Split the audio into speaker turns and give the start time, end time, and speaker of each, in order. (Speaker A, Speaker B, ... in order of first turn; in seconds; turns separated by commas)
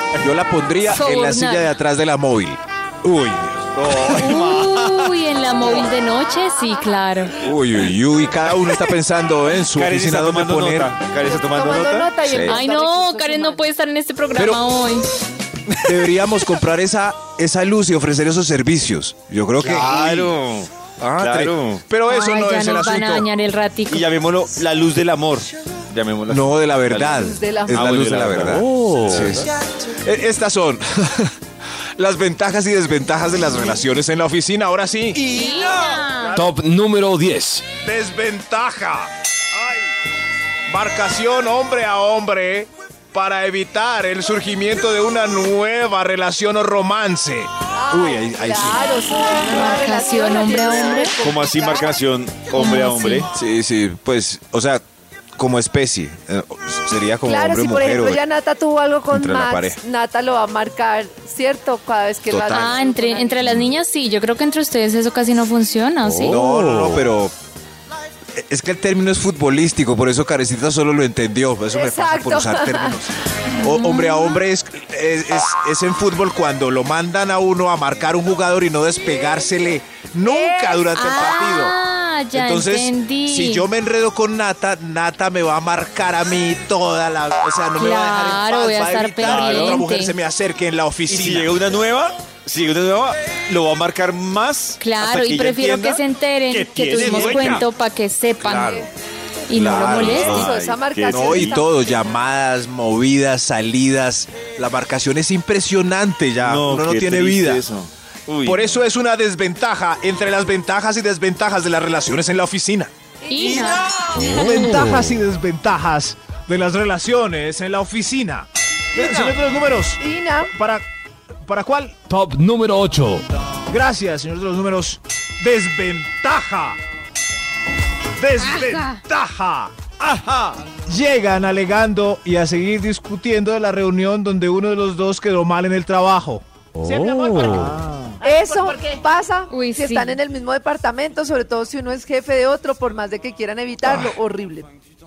Speaker A: 0.2-3.6, Speaker B: 0.8-1.7, Speaker C: 3.7-5.2, Speaker B: 4.1-7.3, Speaker D: 5.6-6.8, Speaker A: 7.4-10.9, Speaker C: 9.7-12.6, Speaker D: 11.2-13.7, Speaker B: 12.5-15.1, Speaker A: 14.3-14.6, Speaker A: 15.8-20.4, Speaker C: 19.6-21.8, Speaker A: 21.0-23.2, Speaker B: 22.1-24.1, Speaker C: 23.9-29.5, Speaker A: 26.3-31.3, Speaker D: 27.1-27.9, Speaker E: 28.4-29.4, Speaker A: 32.0-35.2, Speaker C: 35.1-36.4, Speaker B: 35.3-36.3, Speaker E: 36.3-37.7, Speaker A: 37.8-39.8, Speaker A: 40.7-48.8, Speaker D: 47.7-52.0, Speaker B: 49.5-51.1, Speaker C: 51.2-53.3, Speaker B: 52.5-53.3, Speaker A: 53.3-54.8, Speaker A: 55.4-58.2, Speaker D: 57.2-63.6, Speaker A: 59.1-59.8, Speaker A: 62.3-62.7, Speaker B: 62.5-66.4, Speaker E: 66.0-67.0, Speaker A: 66.1-67.3, Speaker A: 68.3-81.7, Speaker D: 71.7-73.0, Speaker B: 73.5-74.4, Speaker D: 80.2-81.1, Speaker B: 80.9-83.7, Speaker A: 82.3-91.5, Speaker B: 87.7-90.1, Speaker C: 89.2-89.9, Speaker C: 91.1-97.7, Speaker B: 94.8-98.9, Speaker A: 96.9-97.6, Speaker A: 98.4-98.8, Speaker D: 98.6-98.9, Speaker B: 99.5-100.5, Speaker A: 99.5-100.5, Speaker C: 99.8-101.6, Speaker D: 100.0-101.7, Speaker A: 101.1-107.6, Speaker C: 106.4-108.8, Speaker A: 108.4-112.9, Speaker D: 113.2-113.7, Speaker B: 113.3-114.1, Speaker C: 113.3-114.0, Speaker E: 114.1-115.2, Speaker A: 114.2-120.0, Speaker C: 119.0-119.3, Speaker D: 120.0-120.5, Speaker A: 120.5-120.8, Speaker A: 121.4-121.9, Speaker E: 122.1-123.2, Speaker A: 123.7-126.8, Speaker A: 128.2-129.8, Speaker B: 128.4-129.0, Speaker C: 130.0-130.6, Speaker A: 130.8-138.9, Speaker E: 136.8-137.7, Speaker C: 137.3-138.2, Speaker D: 138.2-144.7, Speaker B: 139.5-140.2, Speaker A: 143.8-144.2